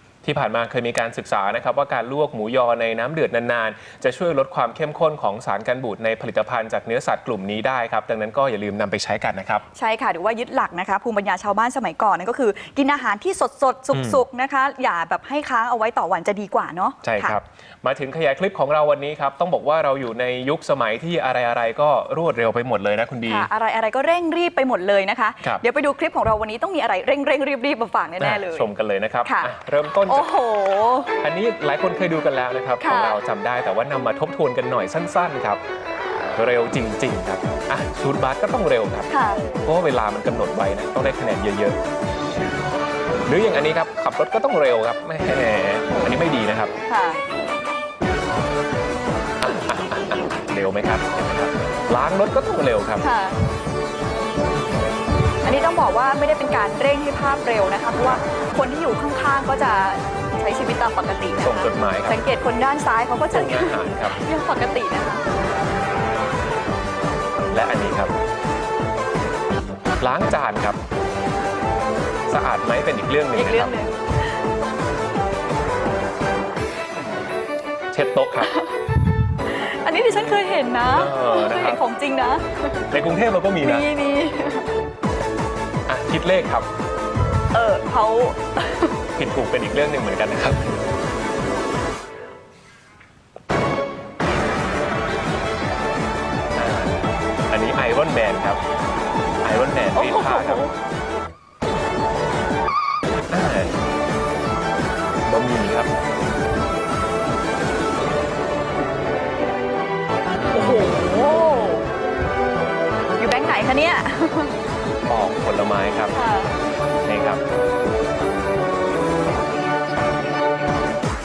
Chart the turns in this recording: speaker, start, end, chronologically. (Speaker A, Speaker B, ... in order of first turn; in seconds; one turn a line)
Speaker A: 0.2-9.6
Speaker B: 9.7-17.4
Speaker A: 13.9-14.2
Speaker A: 17.0-23.5
Speaker B: 23.2-28.6
Speaker A: 28.2-30.3
Speaker B: 29.2-29.5
Speaker B: 30.1-31.1
Speaker A: 31.2-35.6
Speaker B: 32.8-33.2
Speaker A: 36.4-39.1
Speaker B: 39.1-39.4
Speaker A: 39.6-41.8
Speaker A: 43.3-46.7
Speaker B: 45.9-46.2
Speaker B: 46.9-47.2
Speaker A: 49.4-53.0
Speaker B: 53.0-53.4
Speaker B: 55.4-65.2
Speaker A: 61.4-62.2
Speaker A: 63.3-64.2
Speaker A: 67.5-68.1
Speaker A: 70.0-70.8
Speaker A: 72.3-73.7
Speaker B: 73.3-74.3
Speaker A: 77.9-78.5
Speaker B: 78.4-78.8
Speaker B: 79.4-82.8
Speaker A: 80.9-81.8
Speaker A: 82.9-83.9
Speaker B: 83.6-84.7
Speaker A: 85.9-86.7
Speaker B: 87.5-89.0
Speaker A: 89.2-90.7
Speaker A: 96.5-98.6
Speaker A: 99.4-100.7
Speaker B: 99.9-100.7
Speaker A: 103.3-103.8
Speaker A: 105.2-105.9
Speaker B: 110.5-111.8
Speaker B: 113.2-114.5
Speaker A: 115.1-116.1
Speaker B: 116.1-116.5
Speaker A: 117.0-117.4